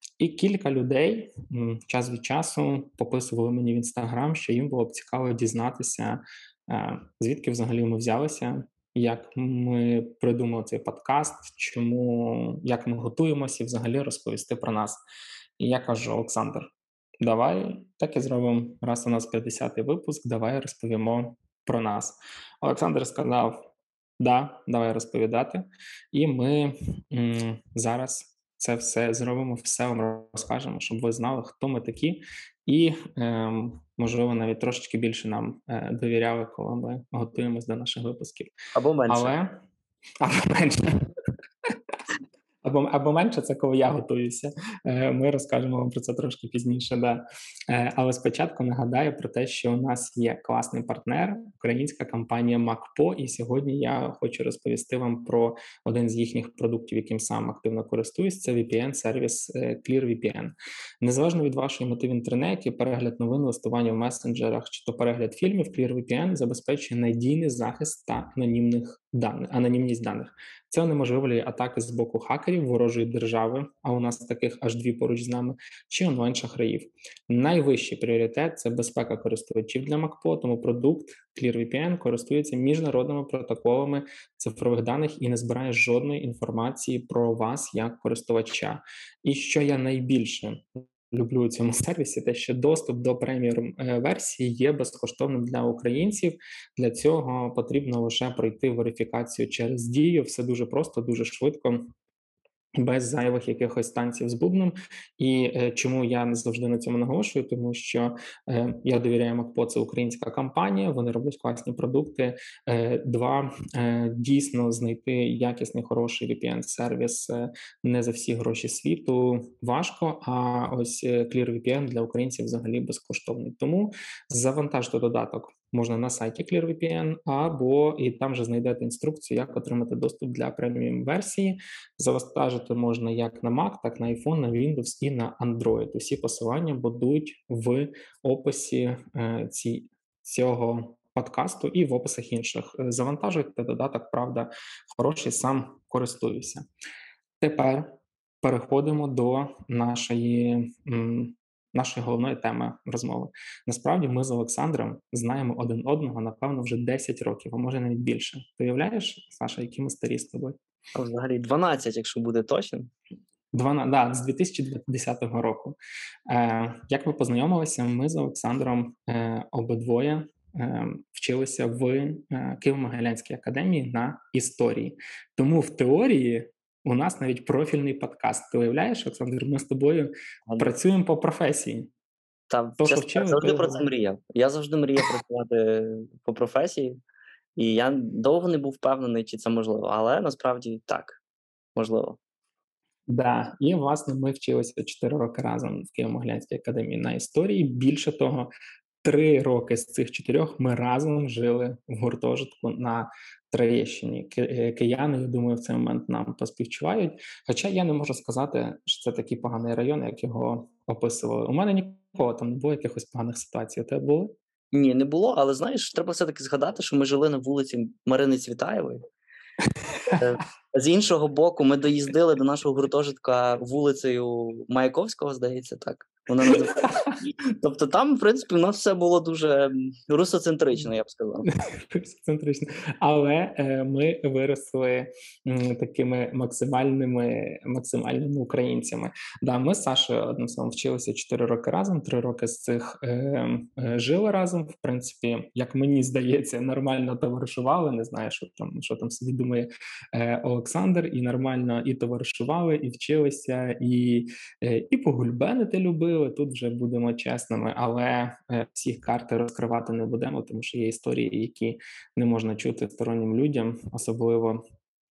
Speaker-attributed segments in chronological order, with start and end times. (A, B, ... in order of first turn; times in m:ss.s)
0:00.2-0:15.0 A
0:15.6-0:23.7 A
0:24.2-0:38.5 A
0:38.7-0:39.3 B
0:39.1-0:39.6 A
0:40.2-0:41.1 A
0:42.6-1:41.9 A
1:42.8-2:26.6 A
2:27.4-2:40.6 A
2:40.9-2:42.9 B
2:43.5-2:45.8 A
2:46.3-3:01.9 A
3:00.5-3:00.7 B
3:02.5-3:07.0 B
3:02.8-3:03.9 A
3:07.6-3:11.2 B
3:11.8-3:12.2 B
3:13.1-3:18.5 A
3:19.0-3:34.4 A
3:34.7-3:39.0 B
3:40.1-3:51.5 B
3:51.7-4:24.6 A